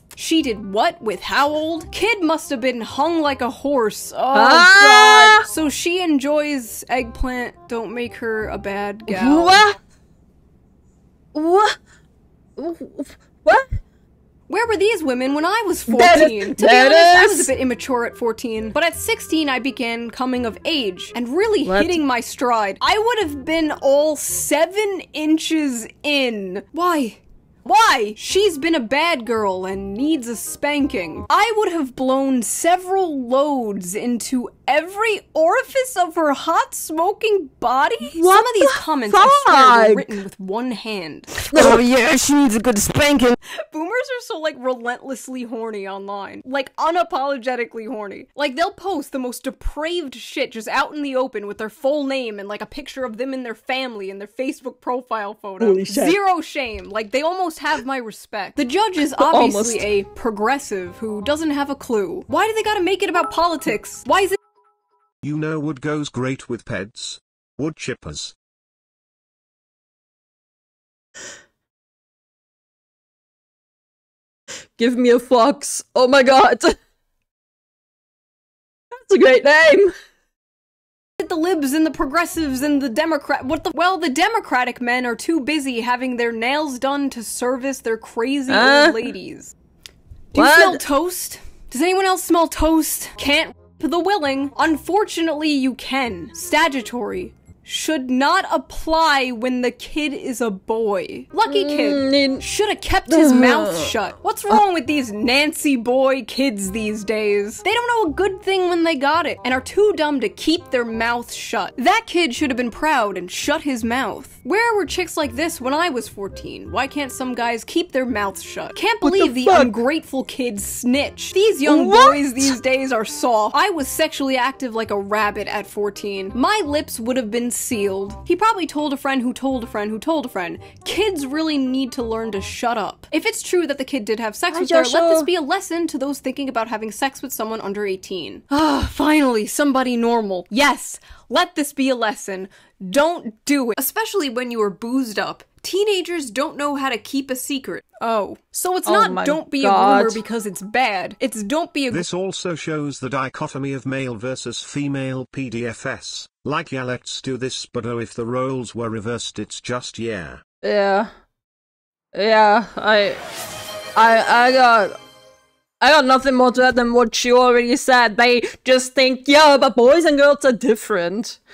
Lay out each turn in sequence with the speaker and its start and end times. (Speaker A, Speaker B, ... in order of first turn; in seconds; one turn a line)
Speaker A: 0.1-9.6
Speaker B: 4.3-5.4
Speaker B: 9.1-9.8
Speaker B: 11.3-11.8
Speaker B: 12.6-13.7
Speaker A: 14.5-41.7
Speaker B: 15.9-17.5
Speaker B: 21.6-22.0
Speaker B: 38.1-40.1
Speaker B: 41.5-43.4
Speaker A: 43.5-64.4
Speaker B: 55.6-56.2
Speaker B: 59.1-59.9
Speaker C: 65.2-68.3
Speaker B: 74.8-76.7
Speaker B: 79.0-79.9
Speaker A: 81.2-89.5
Speaker B: 88.5-89.1
Speaker A: 90.3-152.0
Speaker B: 90.3-90.8
Speaker B: 101.5-102.4
Speaker B: 103.1-103.9
Speaker B: 119.0-119.7
Speaker B: 121.7-122.5
Speaker B: 134.5-135.3
Speaker B: 148.8-150.2
Speaker C: 151.9-160.4
Speaker B: 160.6-161.1
Speaker B: 162.1-163.2
Speaker B: 163.9-164.9
Speaker B: 165.8-171.4